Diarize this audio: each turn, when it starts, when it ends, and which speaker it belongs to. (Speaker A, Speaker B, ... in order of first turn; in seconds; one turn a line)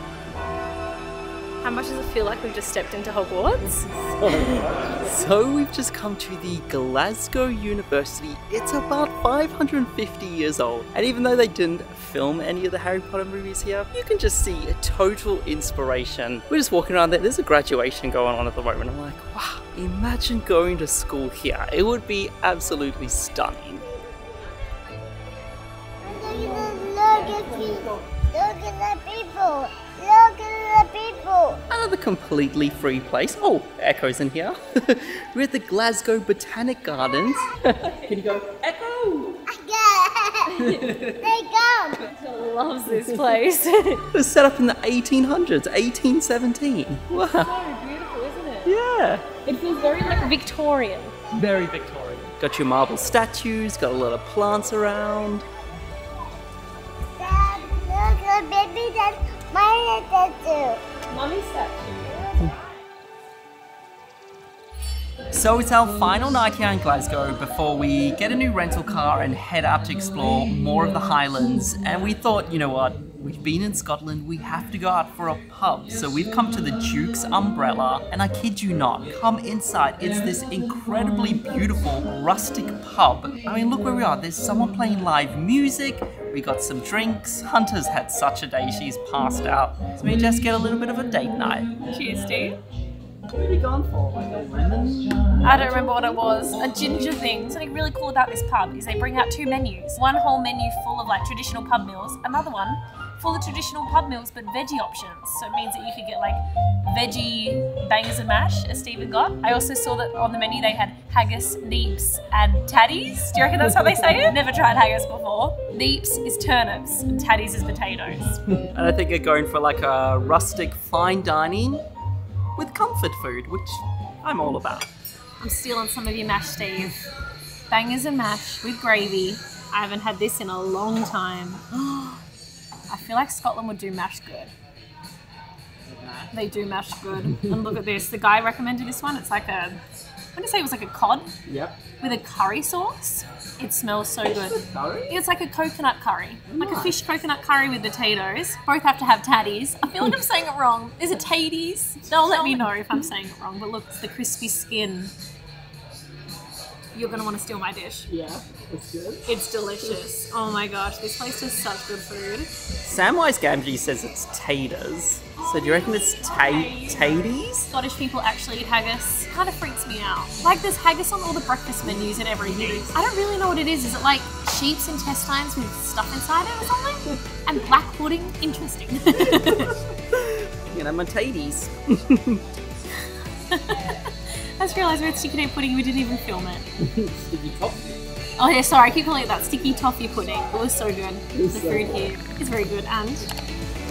Speaker A: 1.6-4.7
Speaker B: 3.8-23.8
Speaker C: 26.0-31.6
Speaker B: 31.7-39.4
Speaker C: 39.5-40.6
Speaker A: 40.5-41.1
Speaker B: 40.6-41.2
Speaker C: 41.2-42.0
Speaker A: 42.1-44.1
Speaker B: 44.1-47.5
Speaker A: 47.1-48.7
Speaker B: 48.6-49.3
Speaker A: 49.4-51.1
Speaker C: 49.7-50.4
Speaker B: 51.3-55.5
Speaker C: 57.1-60.8
Speaker A: 61.1-62.5
Speaker B: 65.3-91.7
Speaker A: 91.9-92.6
Speaker B: 93.3-95.8
Speaker A: 95.4-118.4
Speaker B: 96.5-97.0
Speaker B: 118.6-121.8
Speaker B: 122.6-124.9
Speaker A: 125.4-127.0
Speaker A: 127.7-132.2
Speaker A: 132.9-134.5
Speaker B: 135.9-136.3
Speaker A: 136.3-139.8
Speaker A: 140.3-141.3
Speaker B: 141.5-141.8
Speaker A: 142.0-155.1
Speaker B: 144.3-145.2
Speaker B: 146.5-147.0
Speaker B: 149.9-150.2
Speaker B: 152.1-152.9
Speaker A: 156.9-158.1
Speaker B: 158.1-159.3
Speaker A: 159.3-162.6
Speaker B: 162.8-167.7
Speaker A: 165.4-179.8
Speaker B: 172.4-172.9
Speaker B: 179.2-182.4
Speaker A: 183.5-186.7
Speaker B: 186.8-188.0
Speaker A: 188.4-193.3
Speaker B: 191.3-192.1